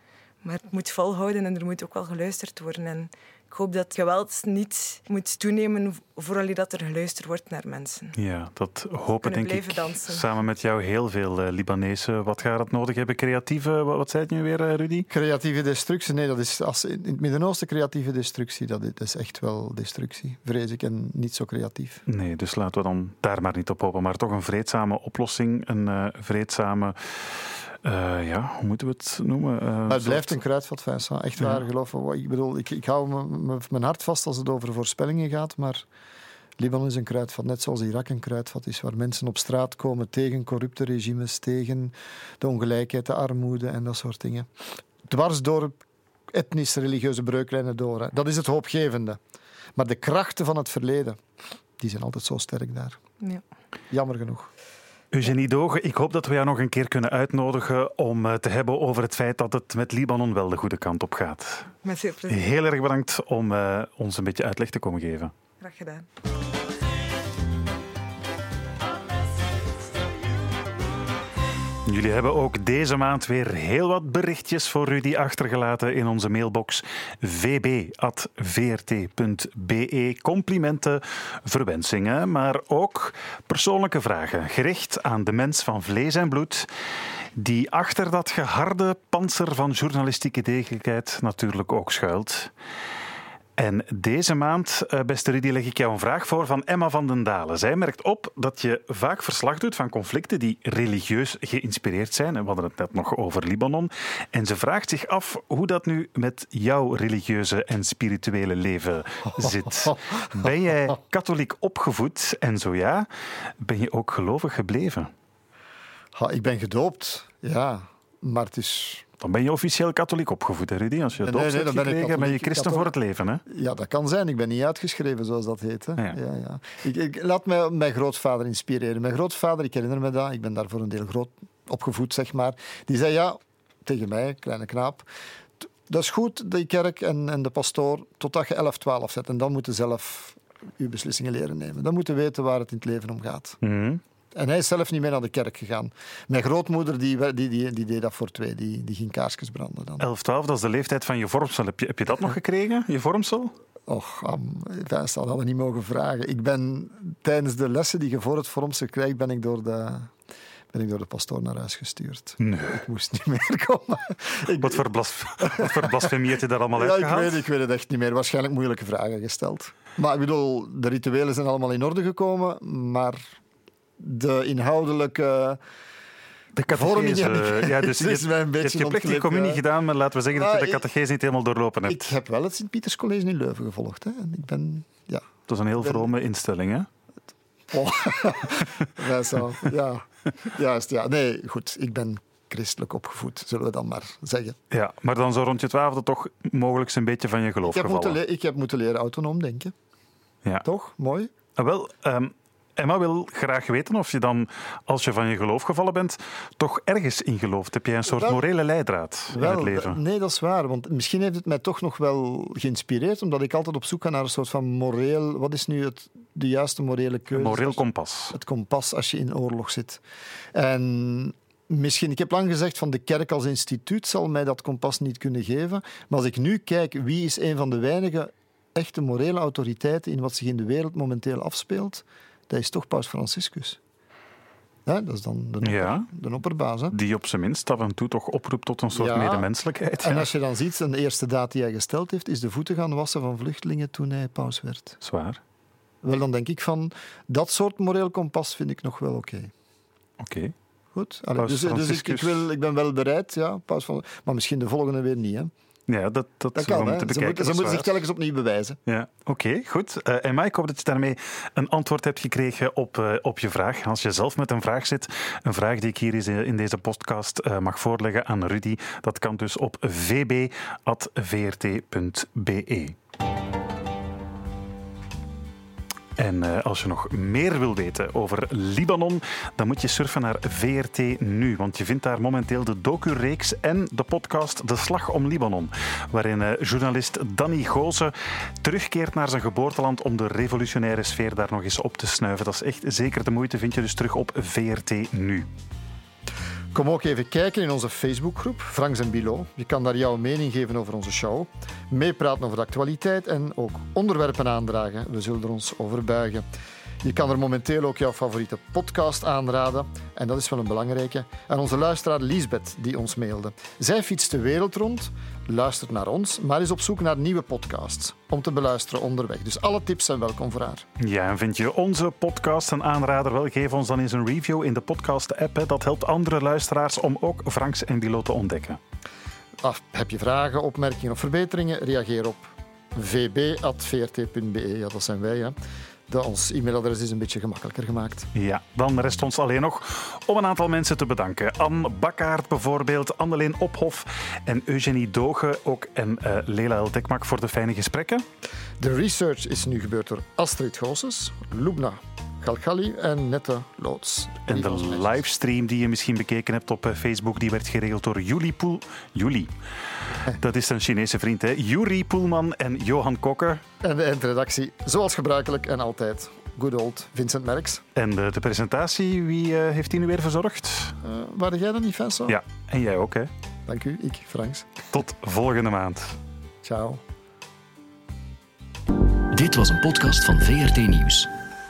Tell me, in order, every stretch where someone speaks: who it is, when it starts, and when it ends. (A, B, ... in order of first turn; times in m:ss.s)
0:00.4-0:08.1 A
0:08.2-0:15.1 B
0:09.2-0:10.3 A
0:15.1-0:22.0 C
0:22.1-0:30.4 B
0:29.9-0:35.8 C
0:31.4-0:31.6 B
0:36.6-0:44.5 C
0:45.0-0:49.2 C
0:49.8-0:51.2 C
0:51.8-0:53.0 C
0:53.9-0:54.5 C
0:55.1-1:01.7 B
1:01.8-1:02.5 A
1:02.3-1:05.3 B
1:05.6-1:06.1 A
1:11.8-1:26.7 B
1:27.4-1:32.5 B
1:33.6-1:53.1 B
1:49.4-1:50.5 C
1:53.6-1:55.1 B
1:56.1-1:59.0 C
1:59.2-2:03.4 B
2:01.2-2:02.9 C
2:03.5-2:15.0 C
2:15.6-2:23.6 C
2:23.6-2:24.0 B
2:24.3-2:30.1 C
2:30.0-2:33.5 B
2:33.9-2:40.1 C
2:40.7-2:44.8 C
2:42.4-2:42.8 B
2:44.6-2:47.4 B
2:45.4-2:46.1 C
2:46.7-2:53.2 C
2:54.0-2:55.6 C
2:56.6-3:02.1 B
2:56.7-2:59.6 C
3:00.3-3:00.8 C
3:01.8-3:06.1 C
3:05.5-3:06.9 B
3:07.7-3:14.6 C
3:14.7-3:18.2 B
3:17.6-3:19.7 C
3:20.6-3:21.3 C
3:21.6-3:30.0 B
3:28.1-3:28.4 C
3:29.3-3:40.0 C
3:37.3-3:38.3 B
3:40.5-3:53.8 C
3:54.8-3:57.0 C
3:55.6-3:56.1 B
3:56.9-4:00.2 B
3:58.9-4:05.0 C
4:05.0-4:05.4 B
4:06.0-4:09.5 C
4:10.2-4:10.5 B
4:10.9-4:15.5 C
4:11.4-4:12.4 B
4:15.9-4:17.9 B
4:16.5-4:18.8 C
4:18.9-4:33.0 B
4:36.2-4:55.5 B
4:56.7-5:06.4 C
5:07.0-5:20.8 C
5:21.0-5:28.8 B
5:29.6-5:35.6 C
5:36.1-5:38.3 C
5:38.3-5:48.2 B
5:48.8-5:55.2 C
5:54.5-5:59.5 B
6:00.3-6:03.6 B
6:03.8-6:07.8 C
6:08.0-6:10.9 B
6:11.0-6:12.4 C
6:12.3-6:13.3 B
6:13.7-6:14.7 C
6:14.9-6:16.2 B
6:16.6-6:17.0 C
6:19.3-6:21.3 D